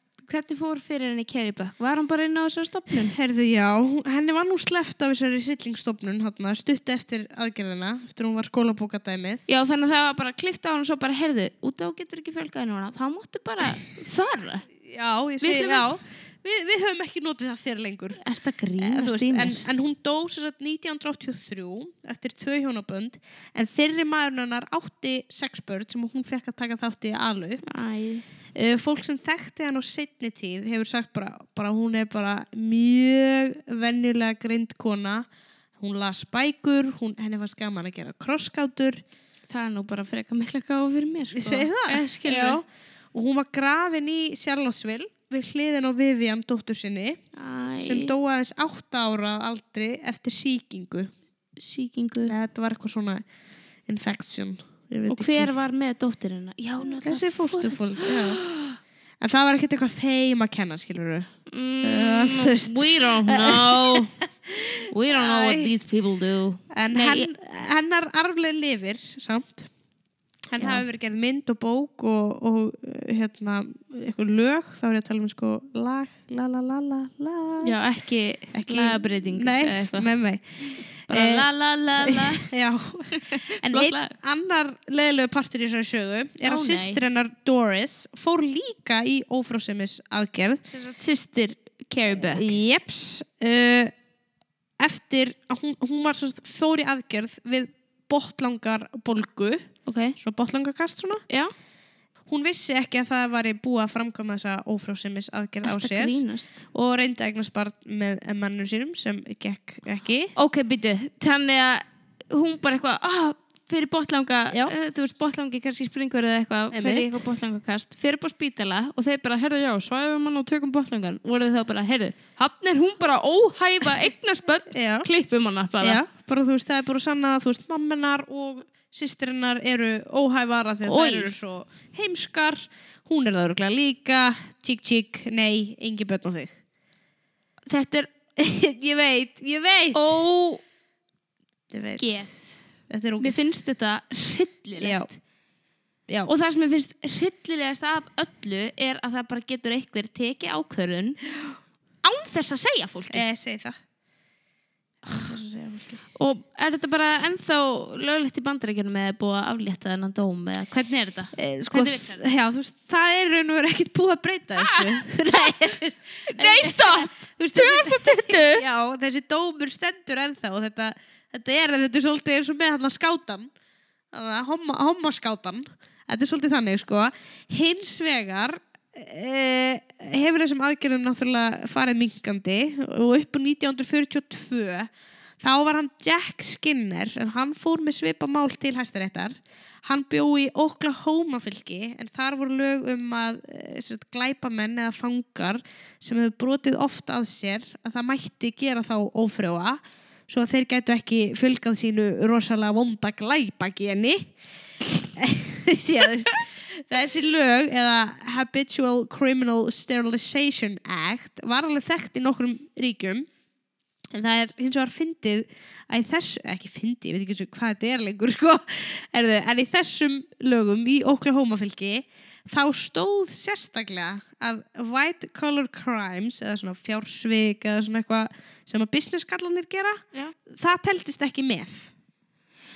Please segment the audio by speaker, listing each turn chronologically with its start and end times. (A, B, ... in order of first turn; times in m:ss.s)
0:00.2-0:03.1 A
0:03.0-0:09.4 B
0:09.5-0:14.7 A
0:14.8-0:18.2 B
0:15.4-0:15.9 A
0:18.2-0:19.6 A
0:18.8-0:27.6 B
0:27.6-0:28.2 A
0:28.5-0:35.3 B
0:35.8-0:39.0 B
0:39.5-0:42.6 A
0:41.3-0:47.2 B
0:47.4-0:48.1 A
0:47.8-0:51.1 B
0:51.6-0:52.3 A
0:52.2-0:53.2 B
0:53.9-0:55.5 B
0:55.1-0:58.8 A
0:56.8-0:58.4 B
0:59.2-1:01.3 B
1:01.5-1:04.1 A
1:01.8-1:05.7 B
1:04.9-1:07.3 A
1:06.7-1:09.7 B
1:10.5-1:17.7 B
1:17.6-1:20.1 A
1:18.5-1:20.4 B
1:21.1-1:21.4 B
1:21.1-1:22.5 A
1:22.0-1:30.6 B
1:23.1-1:24.1 A
1:26.4-1:27.0 A
1:30.7-1:32.5 A
1:32.2-1:33.9 B
1:34.8-1:39.6 B
1:39.8-1:40.2 A
1:40.2-1:41.2 B
1:42.3-1:46.2 B
1:45.6-1:46.6 A
1:46.7-1:50.3 B
1:50.4-2:06.0 A
1:56.7-1:57.2 B
2:04.7-2:05.1 B
2:05.8-2:16.6 B
2:10.8-2:11.3 A
2:17.7-2:18.1 A
2:18.4-2:20.2 B
2:19.9-2:20.6 A
2:21.7-2:22.3 B
2:22.0-2:22.4 A
2:22.9-2:23.4 B
2:23.2-2:25.2 A
2:24.8-2:25.1 B
2:26.2-2:31.2 A
2:32.0-2:33.2 A
2:33.1-2:33.8 B
2:35.0-2:36.0 B
2:36.1-2:42.2 A
2:41.4-2:53.5 B
2:44.6-2:45.0 A
2:46.3-2:48.6 A
2:54.1-3:24.3 B
3:25.0-3:33.3 B
3:34.1-3:51.9 B